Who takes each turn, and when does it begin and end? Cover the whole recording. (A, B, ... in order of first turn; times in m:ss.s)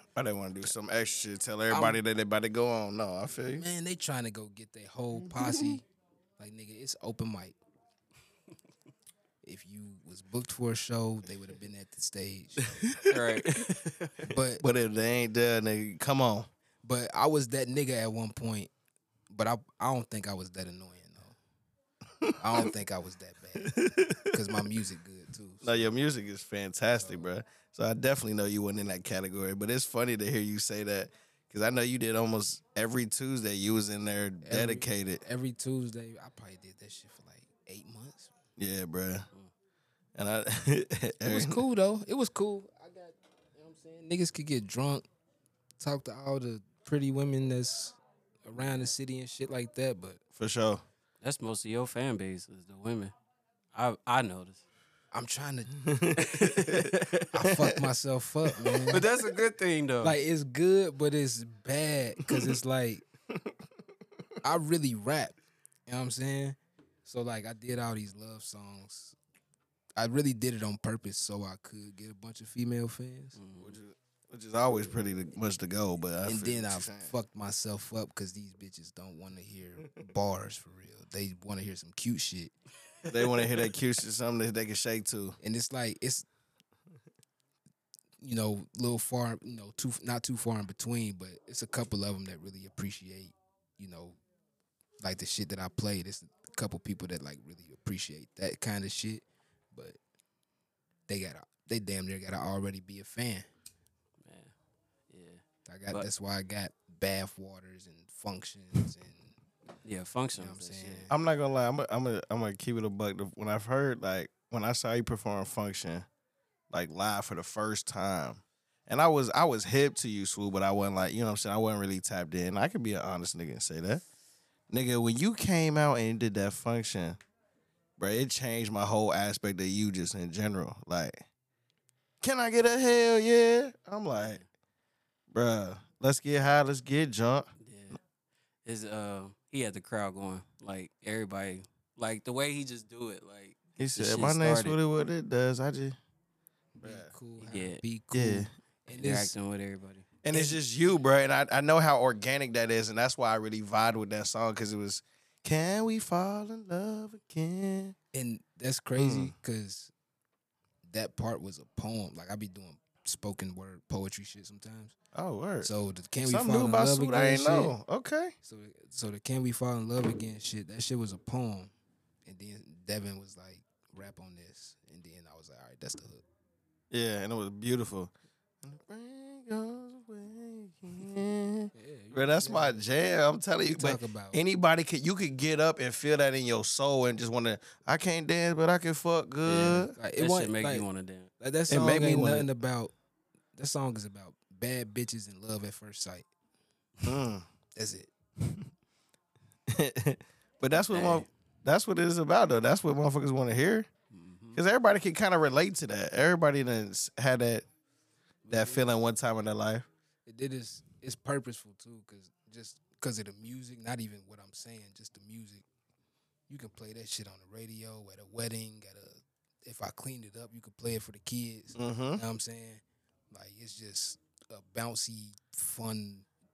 0:00.2-0:03.7 A
0:01.7-0:02.0 B
0:03.5-0:05.8 B
0:05.4-0:05.8 A
0:06.4-0:07.6 B
0:09.4-0:13.0 B
0:13.0-0:14.3 C
0:14.2-0:14.6 B
0:14.6-0:16.5 A
0:16.8-0:18.7 B
0:19.3-0:21.4 B
0:22.2-0:22.7 A
0:22.4-0:25.9 B
0:23.6-0:24.4 A
0:25.6-0:35.2 A
0:26.9-0:27.3 B
0:34.4-0:38.3 B
0:38.6-0:39.3 A
0:40.2-0:41.6 A
0:41.2-0:45.0 B
0:45.8-0:50.2 B
0:50.4-0:50.8 A
0:51.2-0:53.1 C
0:53.7-0:54.6 C
0:55.1-0:55.9 B
0:55.8-0:57.8 A
0:56.2-0:57.3 C
0:57.3-0:59.1 B
0:58.6-0:59.0 A
0:58.9-1:00.2 C
1:00.0-1:03.0 B
1:02.2-1:02.5 A
1:04.4-1:05.4 B
1:05.9-1:09.2 B
1:10.0-1:13.4 B
1:13.4-1:13.8 C
1:13.6-1:17.1 A
1:16.2-1:22.5 B
1:23.1-1:23.4 C
1:23.1-1:25.4 A
1:25.4-1:26.2 B
1:28.2-1:34.2 B
1:35.0-1:40.0 B
1:41.1-1:43.5 B
1:44.2-1:44.5 C
1:45.1-1:46.1 C
1:45.7-1:49.4 B
1:49.8-1:51.1 C
1:50.4-1:51.2 B
1:51.1-1:56.1 A
1:56.7-2:04.0 A
2:04.7-2:07.2 A
2:08.0-2:11.2 A
2:12.2-2:14.4 A
2:14.2-2:14.4 C
2:15.3-2:17.5 A
2:17.6-2:18.0 C
2:18.6-2:24.8 C
2:23.8-2:26.0 A
2:26.8-2:29.3 B
2:26.8-2:27.1 A
2:27.4-2:27.8 C
2:28.1-2:28.5 A
2:28.9-2:30.1 C
2:30.2-2:38.0 A
2:30.3-2:30.6 B
2:38.1-2:39.9 B
2:39.0-2:39.4 A
2:40.9-2:45.0 B
2:45.1-2:45.7 A
2:45.6-2:47.8 B
2:46.2-2:48.3 A
2:48.4-2:51.7 B
2:52.3-2:56.2 B
2:56.9-3:09.9 A
3:01.7-3:02.9 B
3:03.7-3:04.4 B
3:09.4-3:11.3 C
3:10.0-3:10.9 B
3:11.4-3:12.9 B
3:11.7-3:12.5 A
3:13.6-3:16.3 B
3:17.0-3:17.5 A
3:17.7-3:18.1 B
3:19.7-3:23.9 A
3:20.9-3:21.3 C
3:24.1-3:24.6 C
3:24.6-3:27.7 A
3:28.4-3:28.9 B
3:28.5-3:29.9 A
3:30.3-3:35.6 B
3:36.5-3:46.3 B
3:41.8-3:42.2 A